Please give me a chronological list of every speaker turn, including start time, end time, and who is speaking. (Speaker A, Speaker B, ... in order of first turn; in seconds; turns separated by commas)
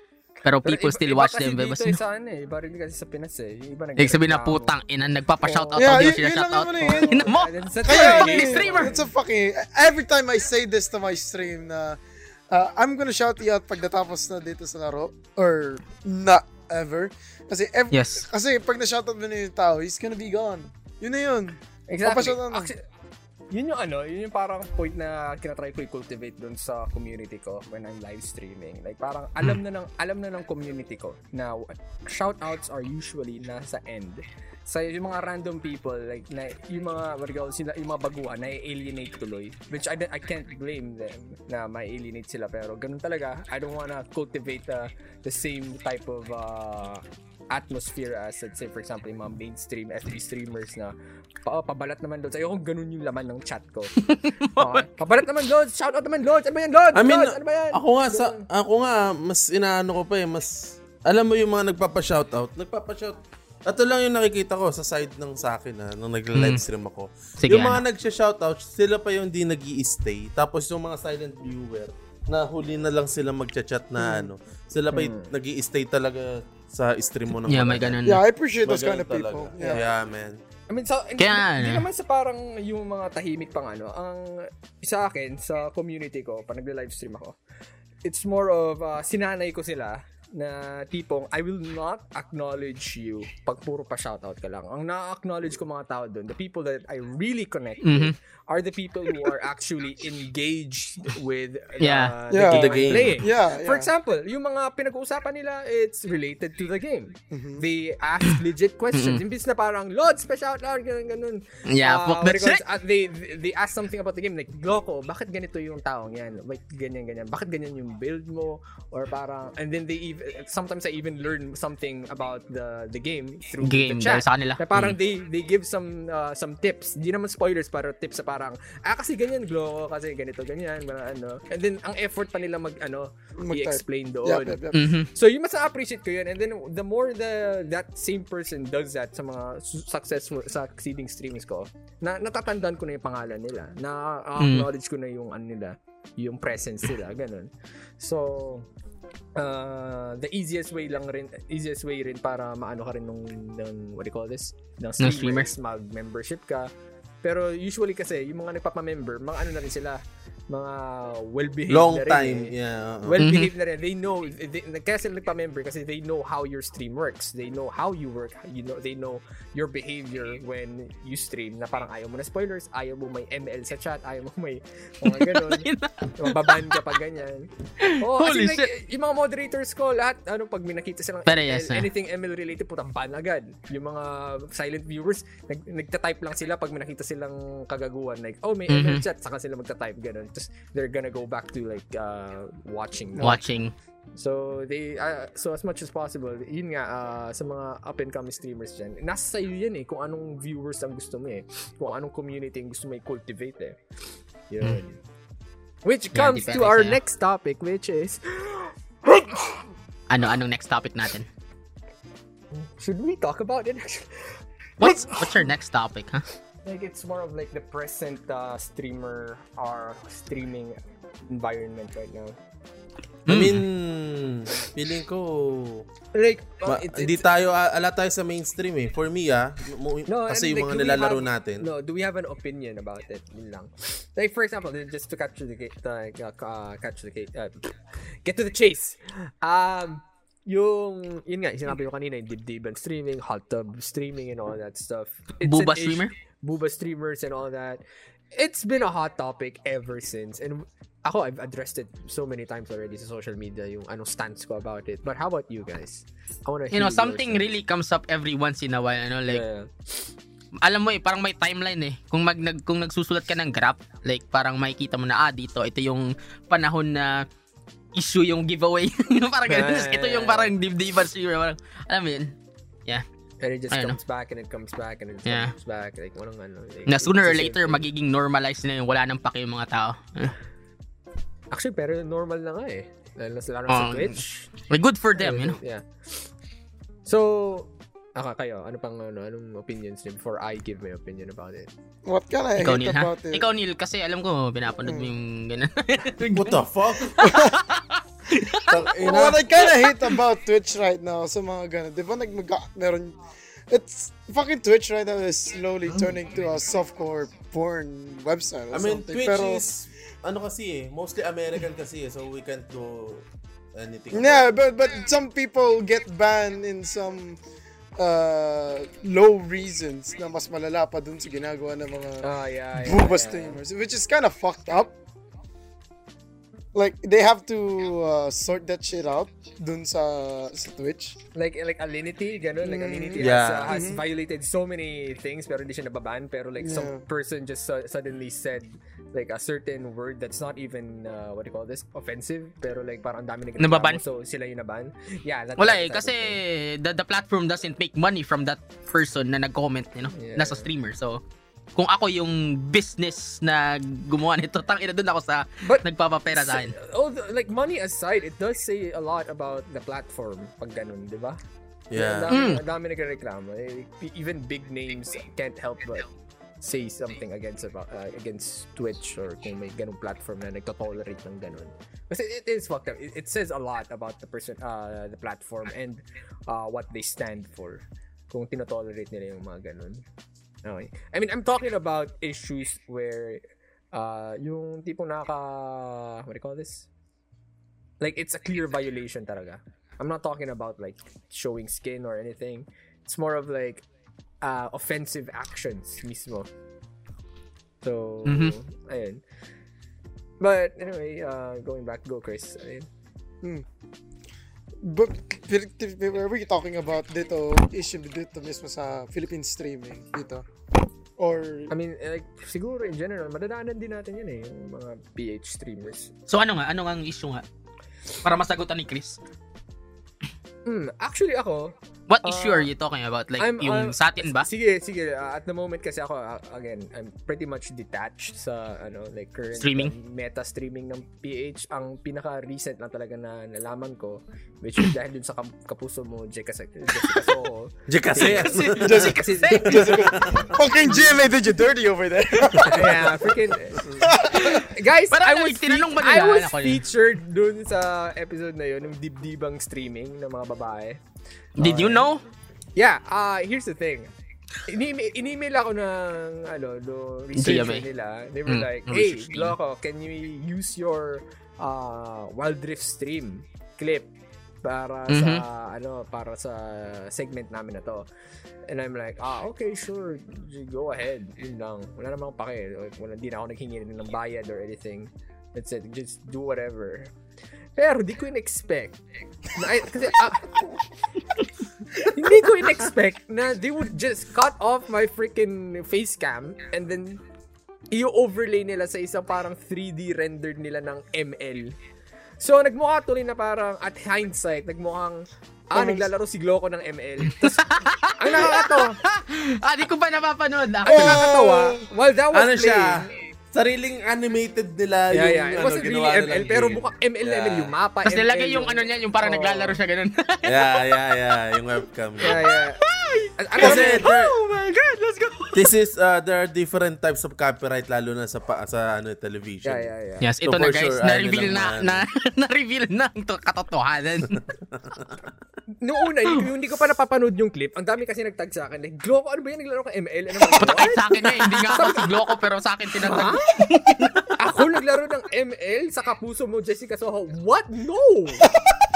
Speaker A: 0.5-2.0, Speaker B: 0.6-4.7, Speaker A: 4.0-9.0, Speaker B: 5.5-6.1, Speaker C: 5.8-12.0, Speaker B: 7.1-9.0, Speaker C: 12.5-22.7, Speaker A: 17.9-18.2, Speaker B: 21.9-22.8, Speaker B: 23.5-51.0, Speaker B: 51.5-53.9, Speaker A: 54.0-54.9, Speaker B: 54.6-58.5, Speaker D: 57.0-78.0, Speaker A: 66.3-66.6, Speaker A: 67.4-67.8, Speaker C: 74.0-74.3, Speaker B: 74.9-75.3, Speaker A: 77.5-78.2, Speaker C: 78.0-79.8, Speaker D: 78.7-80.4, Speaker B: 79.6-79.8, Speaker B: 80.7-87.4, Speaker A: 81.2-81.8, Speaker B: 88.0-134.6, Speaker A: 97.8-98.2, Speaker A: 101.8-102.2, Speaker C: 102.3-103.9, Speaker D: 102.4-103.2, Speaker C: 107.3-107.6, Speaker A: 108.9-109.2, Speaker A: 111.7-112.6, Speaker A: 123.6-125.0, Speaker C: 133.4-135.0, Speaker A: 134.7-135.1, Speaker B: 135.2-148.7, Speaker A: 144.4-144.7, Speaker B: 149.4-156.7, Speaker A: 155.0-155.5, Speaker B: 157.2-193.4, Speaker D: 161.7-163.3, Speaker A: 163.2-163.5, Speaker A: 175.0-176.8, Speaker A: 177.8-178.7, Speaker A: 181.3-181.9, Speaker A: 188.7-189.0, Speaker A: 193.2-193.7, Speaker B: 194.2-203.8, Speaker B: 204.5-205.0, Speaker B: 205.8-209.7, Speaker A: 206.1-207.0, Speaker A: 210.1-211.3, Speaker B: 212.5-215.4, Speaker A: 214.8-216.3, Speaker B: 216.7-222.4, Speaker A: 223.3-223.6, Speaker D: 223.3-225.9, Speaker B: 226.1-227.2, Speaker D: 226.7-231.7, Speaker B: 230.1-247.8, Speaker A: 245.4-246.1, Speaker B: 248.3-257.4, Speaker A: 256.7-259.4, Speaker B: 259.3-260.1, Speaker A: 260.6-267.3, Speaker A: 267.9-272.3, Speaker B: 269.5-270.5, Speaker B: 273.4-277.9, Speaker A: 273.7-274.0, Speaker A: 275.3-275.5, Speaker A: 276.9-280.4, Speaker B: 281.5-284.3, Speaker A: 283.7-285.6, Speaker B: 285.2-286.3, Speaker B: 287.1-291.7, Speaker C: 292.1-293.4, Speaker A: 292.6-296.6, Speaker C: 294.9-295.1, Speaker D: 296.3-297.4, Speaker A: 297.2-298.8, Speaker C: 297.2-297.6, Speaker D: 298.7-299.4, Speaker C: 299.0-303.2, Speaker C: 303.7-309.6, Speaker D: 308.7-314.4, Speaker C: 314.1-317.4, Speaker C: 318.0-324.9, Speaker B: 322.2-323.6, Speaker C: 326.7-331.2, Speaker B: 331.4-346.4, Speaker C: 332.6-334.0, Speaker D: 333.2-333.8, Speaker C: 336.6-337.0, Speaker A: 343.6-344.0, Speaker A: 345.6-351.2, Speaker B: 350.1-350.7, Speaker A: 351.8-356.8, Speaker B: 355.6-361.4, Speaker D: 361.9-362.4, Speaker B: 361.9-366.1, Speaker A: 362.3-362.6, Speaker B: 366.6-380.1, Speaker B: 380.6-383.4, Speaker B: 383.9-386.9, Speaker B: 388.0-393.9, Speaker B: 394.4-396.5, Speaker B: 397.8-399.2, Speaker A: 398.3-398.5, Speaker B: 400.4-402.9, Speaker C: 404.8-410.4, Speaker C: 411.2-411.7, Speaker B: 411.7-416.1, Speaker A: 416.3-417.4, Speaker A: 418.2-419.2, Speaker B: 420.7-422.7, Speaker A: 422.1-424.5, Speaker B: 423.4-441.2, Speaker A: 429.6-429.9, Speaker D: 437.9-439.1, Speaker A: 438.2-440.2, Speaker C: 438.8-444.6, Speaker D: 439.8-440.5, Speaker B: 442.6-451.0, Speaker A: 445.1-446.8, Speaker B: 451.6-452.1, Speaker A: 451.6-452.2, Speaker B: 452.8-454.1, Speaker B: 454.6-464.1, Speaker A: 457.4-457.9, Speaker A: 458.5-459.6, Speaker B: 464.6-468.1, Speaker A: 465.1-465.4, Speaker B: 468.7-477.1, Speaker B: 477.8-480.8, Speaker B: 481.9-487.2, Speaker B: 487.9-491.7, Speaker B: 492.4-499.0, Speaker C: 495.7-496.1, Speaker A: 497.4-501.3, Speaker B: 500.9-503.2, Speaker C: 500.9-501.8, Speaker D: 502.3-507.7, Speaker B: 505.1-509.8, Speaker A: 508.0-510.9, Speaker D: 510.4-512.4, Speaker B: 512.2-515.7, Speaker D: 513.6-514.3, Speaker D: 515.5-519.9, Speaker B: 519.6-520.3, Speaker A: 520.2-524.4, Speaker D: 520.4-522.0, Speaker B: 525.8-532.2, Speaker A: 530.5-534.4, Speaker B: 533.0-533.6, Speaker B: 534.4-538.5